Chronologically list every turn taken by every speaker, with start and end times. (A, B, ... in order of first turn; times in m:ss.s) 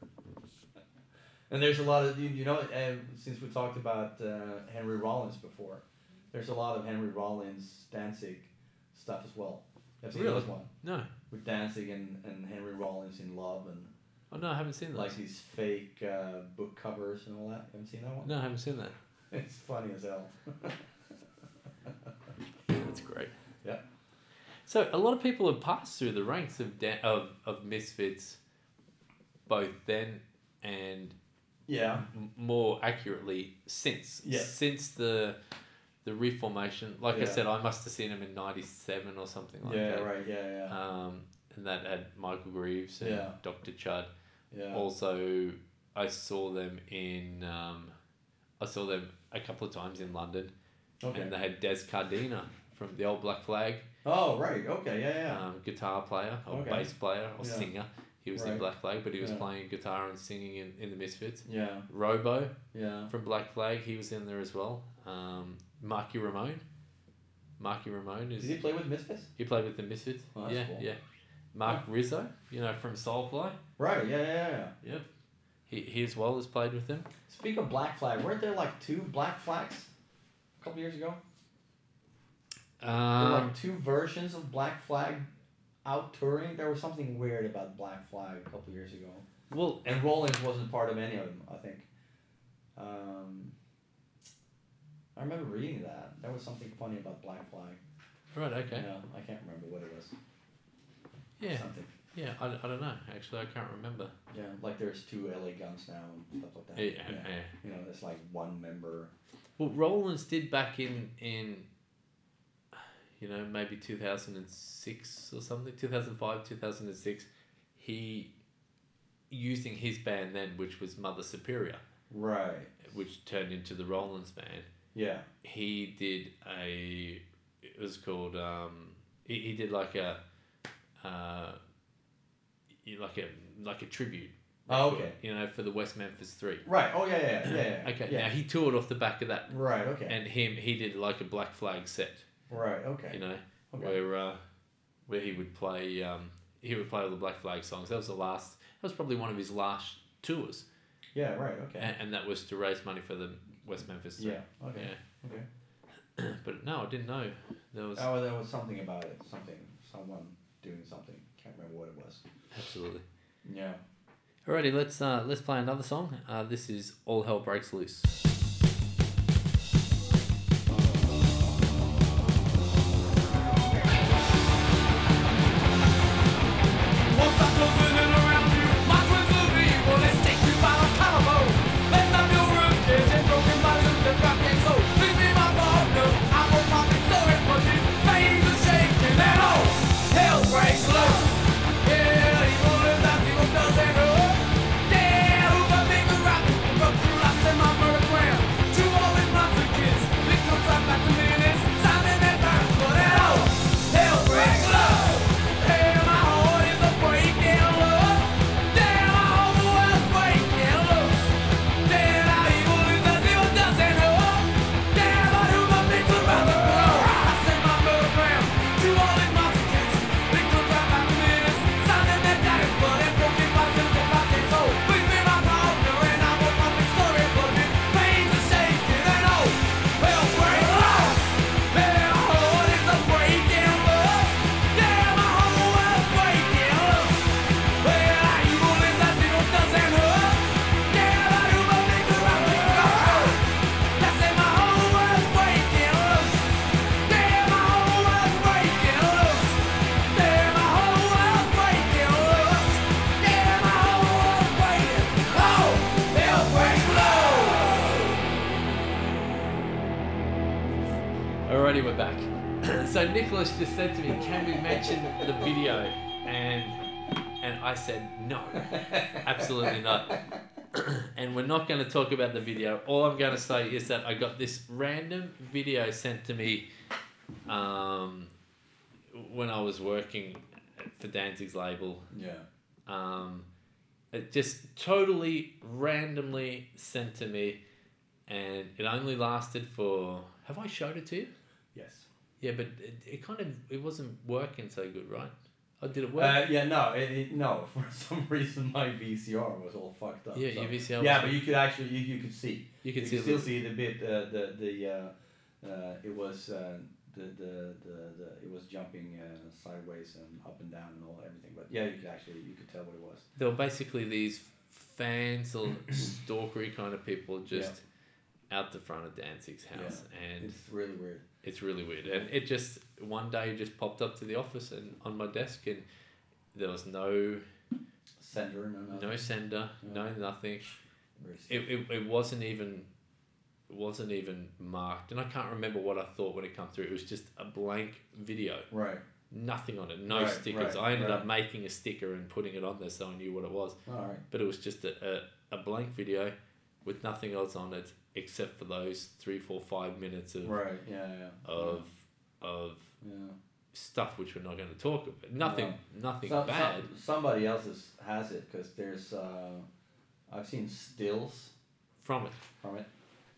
0:01.5-0:10.7 A
0:10.1-0:11.1 B
0:11.3-0:13.9 A
0:14.3-0:15.2 B
0:14.9-0:18.3 A
0:18.2-0:19.0 B
0:19.3-0:20.8 A
0:22.7-0:23.4 B
0:24.7-0:28.4 B
0:29.5-0:31.2 B
0:31.7-0:32.1 A
0:32.1-0:35.4 B
0:34.2-0:34.5 A
0:36.0-0:40.1 B
0:37.1-0:37.4 A
0:39.6-0:40.8 A
0:40.7-0:44.1 B
0:43.0-0:43.4 A
0:44.5-0:44.8 A
0:44.7-0:47.9 B
0:48.6-0:50.5 B
0:51.0-0:51.3 A
0:51.1-0:53.9 B
0:54.0-0:55.4 A
0:55.3-1:02.6 B
0:56.5-0:57.7 A
0:58.4-0:58.6 A
0:59.2-0:59.4 A
1:01.4-1:01.9 A
1:02.7-1:03.1 A
1:03.1-1:06.6 B
1:07.6-1:08.6 B
1:08.4-1:09.3 A
1:09.4-1:11.0 B
1:10.4-1:10.8 A
1:11.5-1:13.6 B
1:13.8-1:14.8 A
1:14.8-1:15.1 B
1:15.7-1:17.1 B
1:17.3-1:19.9 A
1:20.6-1:21.2 A
1:22.8-1:23.6 B
1:23.2-1:25.3 A
1:25.8-1:29.3 A
1:29.5-1:29.9 B
1:29.8-1:31.9 A
1:32.8-1:33.6 A
1:35.2-1:37.8 A
1:38.3-1:38.9 B
1:38.7-1:40.1 A
1:41.4-1:44.1 B
1:41.5-1:41.9 A
1:44.3-1:49.1 A
1:46.8-1:47.6 B
1:49.6-1:51.7 B
1:52.7-1:58.3 B
1:59.3-2:01.8 B
2:02.1-2:02.8 A
2:02.8-2:04.7 B
2:04.9-2:05.3 A
2:05.4-2:10.2 B
2:11.0-2:11.6 B
2:12.7-2:16.6 B
2:14.7-2:15.2 A
2:16.6-2:18.3 A
2:17.4-2:19.5 B
2:19.5-2:20.2 A
2:20.1-2:22.3 B
2:22.5-2:23.2 A
2:23.1-2:24.4 B
2:23.7-2:24.0 A
2:25.1-2:30.7 B
2:31.1-2:31.9 A
2:31.8-2:35.0 B
2:34.2-2:35.5 A
2:36.2-2:38.1 B
2:38.0-2:42.2 A
2:42.5-2:43.0 B
2:43.4-2:43.8 A
2:44.5-2:48.2 B
2:57.1-3:57.3 C
3:57.8-4:03.4 C
4:04.0-4:06.5 C
4:07.0-4:18.0 C
4:21.5-4:26.8 B
4:27.4-4:30.2 B
4:28.6-4:30.2 A
4:30.7-4:36.7 B
4:37.5-4:38.3 B
4:39.1-4:42.1 B
4:42.1-4:42.4 A
4:42.9-4:43.5 B
4:44.1-4:47.6 B
4:48.3-4:51.3 B
4:51.7-4:52.1 A
4:52.4-4:56.4 B
4:56.2-5:13.3 A
5:00.4-5:01.4 B
5:02.8-5:03.5 B
5:13.4-5:17.8 B
5:18.5-5:20.6 B
5:19.7-5:21.2 A
5:21.4-5:25.8 B
5:26.5-5:27.4 B
5:28.2-5:29.2 A
5:28.9-5:30.8 B
5:31.2-5:31.7 A
5:31.5-5:32.9 B
5:33.7-5:38.7 B
5:38.7-5:39.0 A
5:39.3-5:43.8 B
5:40.1-5:41.2 A
5:43.9-5:44.2 A
5:44.3-5:50.6 B
5:50.4-5:51.8 A
5:51.4-5:52.9 B
5:53.0-5:53.4 A
5:53.7-5:56.9 B
5:55.4-5:59.7 A
6:00.3-6:01.5 A
6:02.0-6:02.4 B
6:02.6-6:02.9 A